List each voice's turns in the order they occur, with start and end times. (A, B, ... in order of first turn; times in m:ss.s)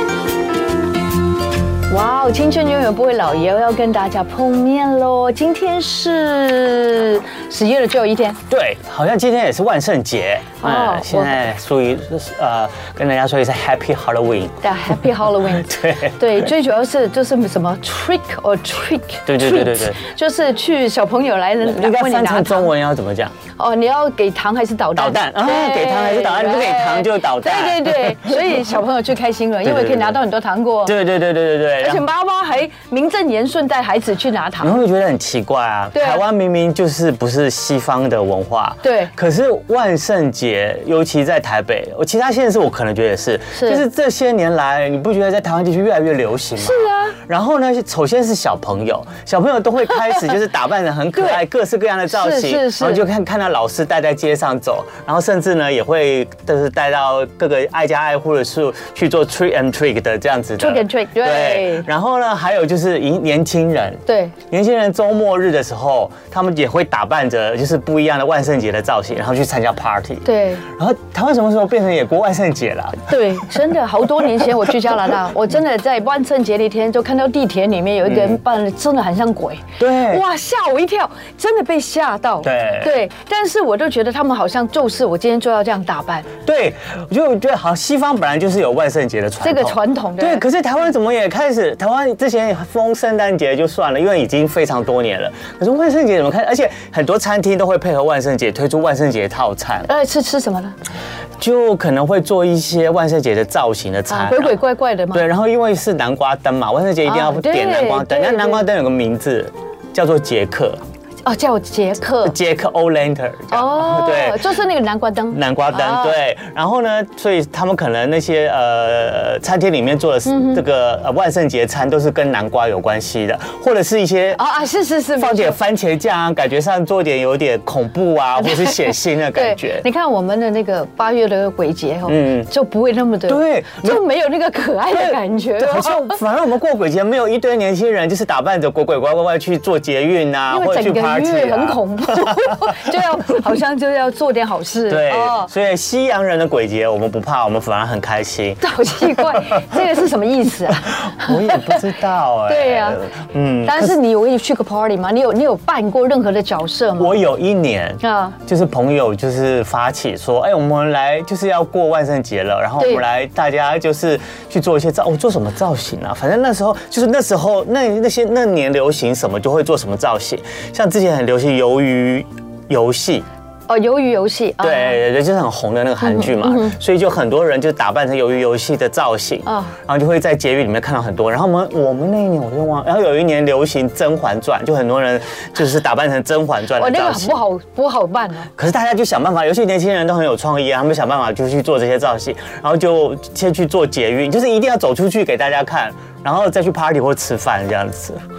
0:01.9-0:08.4 A
0:08.5-0:14.6 B
0:10.6-0:11.4 A
0:14.6-0:22.7 A
0:15.4-0:16.5 B
0:19.3-0:20.0 B
0:21.6-0:23.3 B
0:23.6-0:31.0 A
0:25.0-0:28.6 B
0:29.6-0:30.2 B
0:30.8-0:32.0 B
0:31.8-0:34.8 A
0:34.6-1:13.4 B
0:35.9-0:36.2 A
0:38.8-0:39.1 A
0:43.5-0:43.8 A
0:46.6-0:47.2 A
0:51.2-0:51.4 A
0:52.1-0:53.0 A
1:00.6-1:01.9 A
1:04.1-1:04.3 A
1:10.2-1:10.6 A
1:13.1-1:26.3 A
1:18.0-1:18.4 B
1:19.8-1:20.2 B
1:22.4-1:23.0 B
1:26.4-1:39.9 B
1:29.4-1:30.4 A
1:39.8-1:40.8 A
1:41.4-1:44.6 B
1:44.1-1:45.2 A
1:45.1-1:50.8 B
1:47.0-1:48.6 A
1:51.2-1:52.4 A
1:52.2-1:54.4 B
1:53.5-1:56.2 A
1:55.3-2:04.4 B
2:00.2-2:00.6 A
2:04.4-2:05.6 A
2:05.2-2:09.8 B
2:08.4-2:16.2 A
2:12.1-2:12.5 B
2:13.2-2:14.0 B
2:14.9-2:22.8 B
2:20.5-2:25.5 A
2:24.9-2:29.7 B
2:28.6-2:31.8 A
2:31.0-2:34.0 B
2:32.5-2:33.0 A
2:33.6-2:37.2 A
2:37.0-2:53.2 B
2:38.0-2:38.4 A
2:42.8-2:43.0 A
2:53.7-2:55.0 A
2:54.6-3:07.4 B
2:56.0-2:56.8 A
2:59.4-2:59.7 A
3:06.8-3:08.5 A
3:08.6-3:18.2 B